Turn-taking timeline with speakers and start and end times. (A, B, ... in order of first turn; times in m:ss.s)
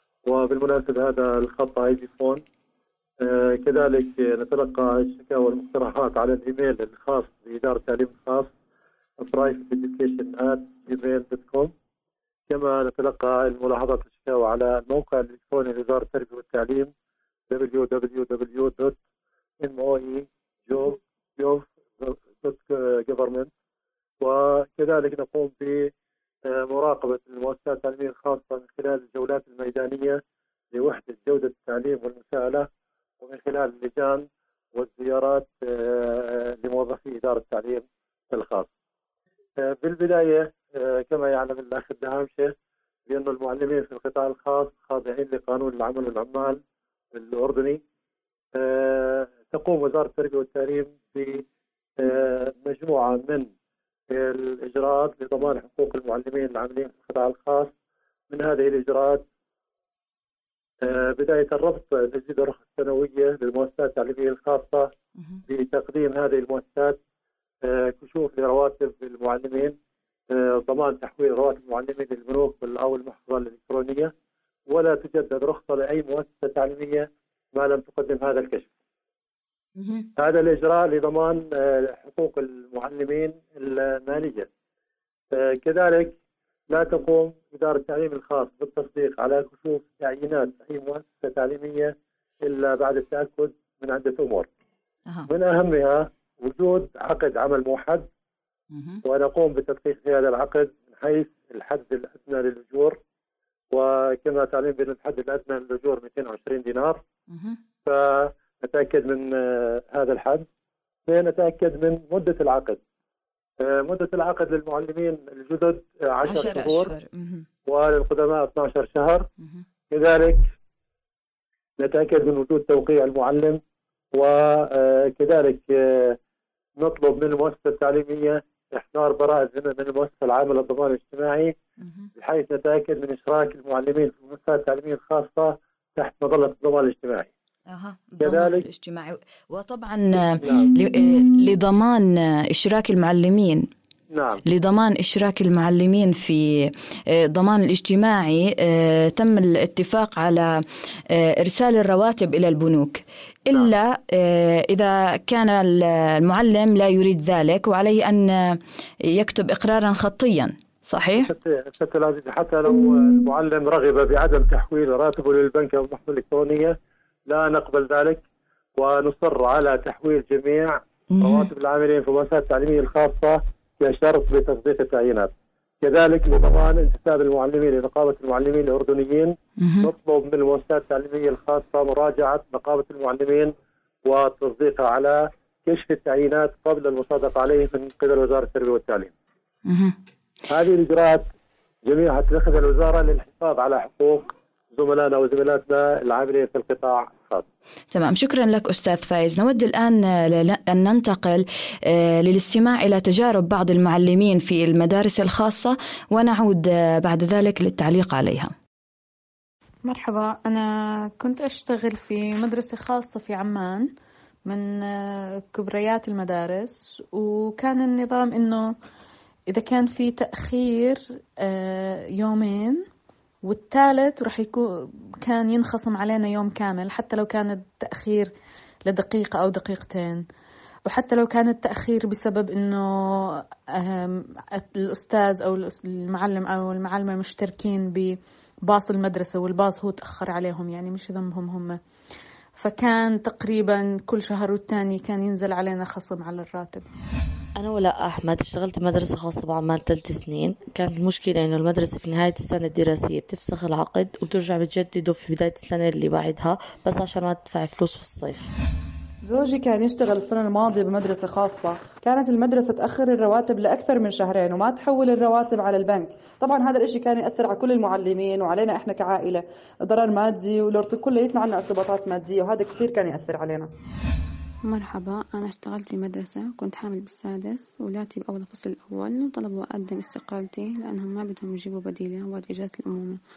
0:00.2-0:02.4 A
0:03.2-0:08.5 A
0:09.2-0:11.7 A
0:12.5-0:16.9 A
0:17.5-0:19.0 A
0:19.6-0:23.5 A
0:24.2-0:25.9 A
0:26.4-0:30.2 A
0:30.7-0:32.7 A
0:33.2-0:38.7 A
0:39.6-0:42.5 A
0:43.1-0:46.6 A
0:47.1-0:47.8 A
0:48.5-0:51.4 A
0:52.0-0:53.5 A
0:54.1-0:57.7 A
0:58.3-0:59.2 A
1:00.8-1:04.9 A
1:05.5-1:07.0 A
1:07.6-1:09.7 A
1:10.3-1:14.1 A
1:14.7-1:18.7 A
1:19.8-1:20.1 B
1:20.2-1:24.5 A
1:25.3-1:26.1 A
1:26.7-1:34.5 A
1:35.3-1:38.0 A
1:38.7-1:39.0 B
1:39.0-1:43.0 A
1:43.7-1:47.0 A
1:47.3-1:47.6 B
1:47.8-1:50.4 A
1:51.1-1:52.8 A
1:53.6-1:56.9 A
1:56.2-1:57.4 B
1:57.7-1:59.2 A
1:59.9-2:00.4 A
2:01.8-2:03.6 A
2:04.1-2:06.2 A
2:06.8-2:11.5 A
2:11.8-2:12.1 B
2:12.2-2:17.3 A
2:17.7-2:23.7 B
2:18.2-2:18.6 A
2:20.4-2:20.7 A
2:24.1-2:24.4 A
2:24.4-2:30.6 B
2:31.1-2:41.3 B
2:41.2-2:46.7 A
2:47.3-2:48.2 A
2:48.8-3:03.5 A
2:51.1-2:51.5 B
2:59.6-2:59.9 B
3:04.0-3:09.1 A
3:09.7-3:10.0 B
3:10.5-3:11.2 A
3:11.9-3:17.4 A
3:17.9-3:28.5 B
3:29.9-3:33.9 C
3:34.4-3:38.8 C
3:39.5-3:42.9 C
3:43.4-3:44.6 C
3:45.2-3:48.3 C
3:48.9-3:50.2 C
3:50.9-4:01.8 C
4:02.6-4:06.8 C
4:07.6-4:18.5 D
4:19.3-4:33.7 E
4:34.6-4:43.2 F